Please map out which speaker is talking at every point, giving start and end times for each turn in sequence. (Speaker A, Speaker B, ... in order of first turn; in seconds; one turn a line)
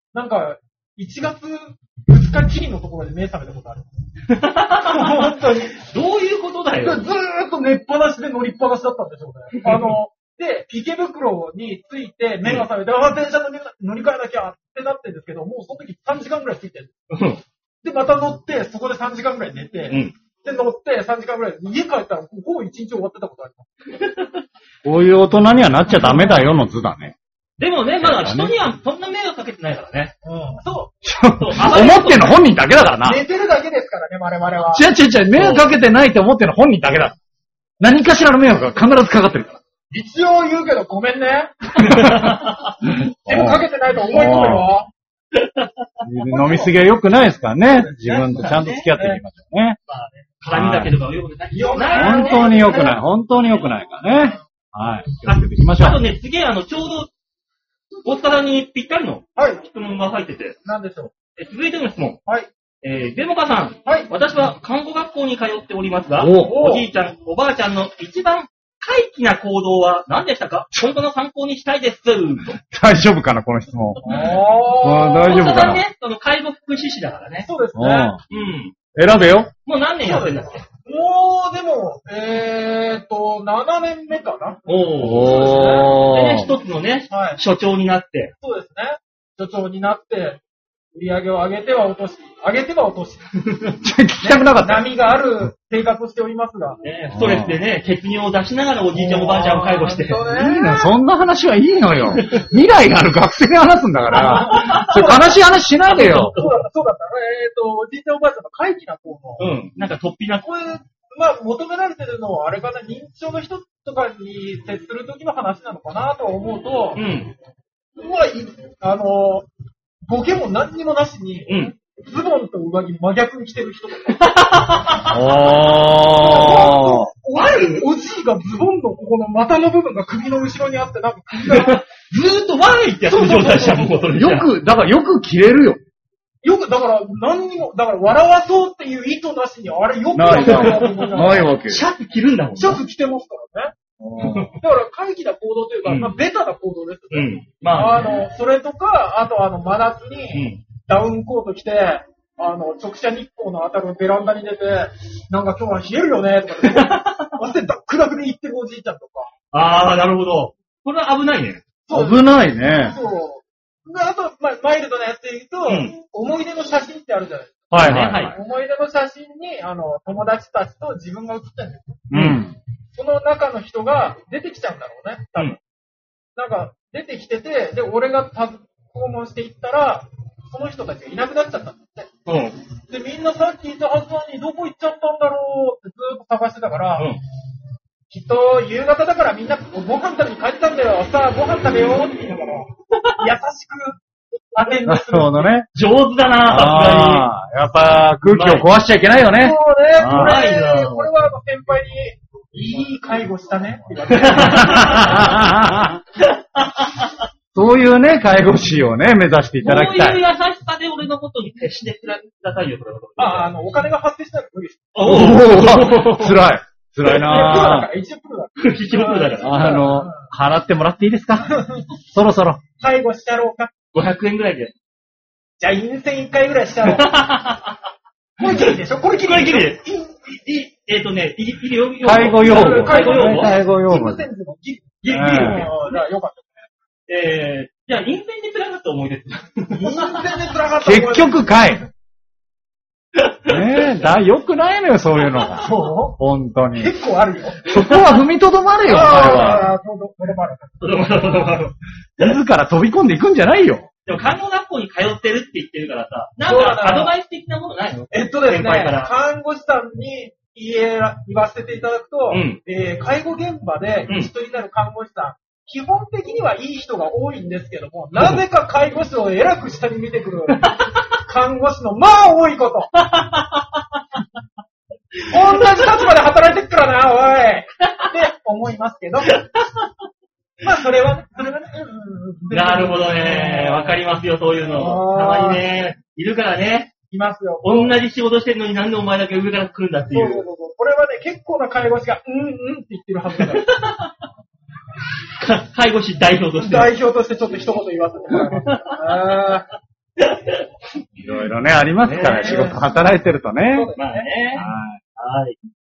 Speaker A: 0.1-3.9
Speaker B: 4.3-7.0
Speaker A: 4.8-5.8
Speaker A: 6.8-16.9
Speaker B: 9.5-9.9
Speaker B: 17.1-17.4
Speaker A: 17.8-23.7
Speaker B: 19.9-20.1
Speaker B: 24.0-24.4
Speaker C: 24.8-27.1
Speaker A: 25.9-26.4
Speaker B: 27.6-30.1
Speaker C: 28.0-28.5
Speaker A: 30.2-30.9
Speaker C: 31.0-33.2
Speaker B: 31.4-32.4
Speaker A: 33.0-34.8
Speaker C: 34.7-37.1
Speaker B: 35.3-35.6
Speaker C: 37.8-39.6
Speaker A: 39.9-41.8
Speaker B: 41.7-42.8
Speaker C: 41.8-44.7
Speaker A: 43.3-44.9
Speaker B: 45.3-45.7
Speaker C: 46.0-49.8
Speaker A: 46.2-46.8
Speaker A: 47.7-49.2
Speaker B: 48.4-48.9
Speaker B: 49.9-52.8
Speaker C: 50.5-50.9
Speaker A: 51.5-53.0
Speaker C: 51.9-56.0
Speaker B: 55.2-57.1
Speaker B: 58.0-60.5
Speaker A: 59.4-59.6
Speaker A: 60.6-61.1
Speaker B: 61.4-62.2
Speaker B: 62.8-72.6
Speaker A: 63.9-64.1
Speaker C: 66.2-66.6
Speaker A: 66.4-66.9
Speaker C: 72.6-74.0
Speaker B: 74.0-74.4
Speaker A: 74.0-75.5
Speaker C: 74.8-75.8
Speaker B: 75.2-77.5
Speaker A: 77.4-78.2
Speaker C: 77.7-78.2
Speaker B: 78.3-78.7
Speaker C: 78.9-79.5
Speaker B: 79.6-80.6
Speaker A: 80.0-85.9
Speaker B: 84.7-88.3
Speaker C: 85.0-86.5
Speaker A: 87.1-87.4
Speaker A: 88.4-90.4
Speaker A: 90.9-93.3
Speaker B: 93.4-93.7
Speaker C: 93.8-94.9
Speaker A: 94.2-96.8
Speaker B: 96.8-100.3
Speaker C: 97.1-97.6
Speaker A: 98.9-100.9
Speaker C: 100.3-106.3
Speaker B: 102.1-102.5
Speaker B: 104.1-106.6
Speaker A: 104.2-105.3
Speaker A: 106.3-109.5
Speaker B: 109.4-110.5
Speaker A: 110.4-117.0
Speaker B: 117.0-117.3
Speaker A: 118.0-119.5
Speaker A: 120.1-124.3
Speaker B: 121.5-121.7
Speaker B: 124.1-125.2
Speaker C: 125.1-127.1
Speaker A: 126.1-131.8
Speaker B: 127.3-127.8
Speaker B: 131.4-134.5
Speaker A: 133.1-134.1
Speaker C: 134.1-135.8
Speaker A: 136.4-141.5
Speaker C: 140.1-141.8
Speaker B: 140.4-142.8
Speaker A: 142.6-143.7
Speaker C: 144.0-144.6
Speaker B: 144.2-144.5
Speaker A: 144.6-159.3
Speaker B: 145.8-146.1
Speaker B: 147.1-148.2
Speaker B: 150.3-150.6
Speaker B: 156.6-157.4
Speaker B: 159.5-161.6
Speaker A: 161.9-172.1
Speaker C: 161.9-162.9
Speaker B: 165.7-165.9
Speaker C: 167.7-168.3
Speaker B: 167.7-168.3
Speaker C: 172.1-172.6
Speaker B: 172.1-172.4
Speaker A: 172.9-175.6
Speaker A: 176.3-182.1
Speaker B: 182.2-182.6
Speaker A: 182.9-187.1
Speaker A: 188.1-192.7
Speaker B: 192.9-193.2
Speaker A: 193.2-194.0
Speaker A: 194.5-195.5
Speaker C: 194.8-195.7
Speaker B: 195.7-197.3
Speaker C: 196.5-200.4
Speaker B: 198.3-198.6
Speaker A: 199.3-205.3
Speaker B: 200.1-201.1
Speaker B: 204.1-205.3
Speaker C: 204.4-206.0
Speaker B: 206.2-207.2
Speaker C: 207.5-210.2
Speaker B: 209.6-213.5
Speaker A: 213.2-214.9
Speaker B: 214.9-216.4
Speaker C: 215.0-217.9
Speaker A: 217.1-220.3
Speaker B: 218.6-219.7
Speaker C: 219.4-222.6
Speaker A: 221.4-221.8
Speaker A: 222.8-223.7
Speaker B: 223.9-224.7
Speaker A: 225.6-227.1
Speaker B: 226.8-227.8
Speaker A: 228.4-230.2
Speaker B: 228.4-233.6
Speaker C: 232.0-234.2
Speaker A: 232.4-236.5
Speaker B: 235.0-236.0
Speaker C: 235.1-235.7
Speaker B: 237.1-240.2
Speaker A: 239.7-241.6
Speaker C: 240.8-241.8
Speaker B: 243.2-244.0
Speaker C: 243.5-246.9
Speaker A: 245.6-246.2
Speaker A: 246.8-247.6
Speaker C: 247.7-249.7
Speaker B: 247.7-248.2
Speaker A: 248.9-251.5
Speaker B: 250.8-252.3
Speaker C: 252.2-253.9
Speaker B: 254.1-259.1
Speaker A: 256.4-257.1
Speaker A: 258.1-272.9
Speaker B: 262.3-262.6
Speaker B: 268.1-268.4
Speaker B: 270.5-271.1
Speaker B: 272.9-273.8
Speaker B: 275.2-276.1
Speaker A: 275.3-279.4
Speaker B: 277.8-278.1
Speaker B: 279.2-279.9
Speaker A: 280.6-284.0
Speaker B: 282.5-286.9
Speaker A: 284.7-285.6
Speaker A: 287.1-288.0
Speaker B: 287.6-290.4
Speaker A: 290.1-293.7
Speaker B: 293.4-294.1
Speaker B: 295.3-296.9
Speaker A: 296.6-299.7
Speaker B: 298.4-299.0
Speaker B: 300.2-300.7
Speaker C: 301.2-303.9
Speaker B: 302.0-302.7
Speaker A: 302.2-302.8
Speaker A: 303.7-304.6
Speaker B: 303.9-305.6
Speaker C: 304.6-305.0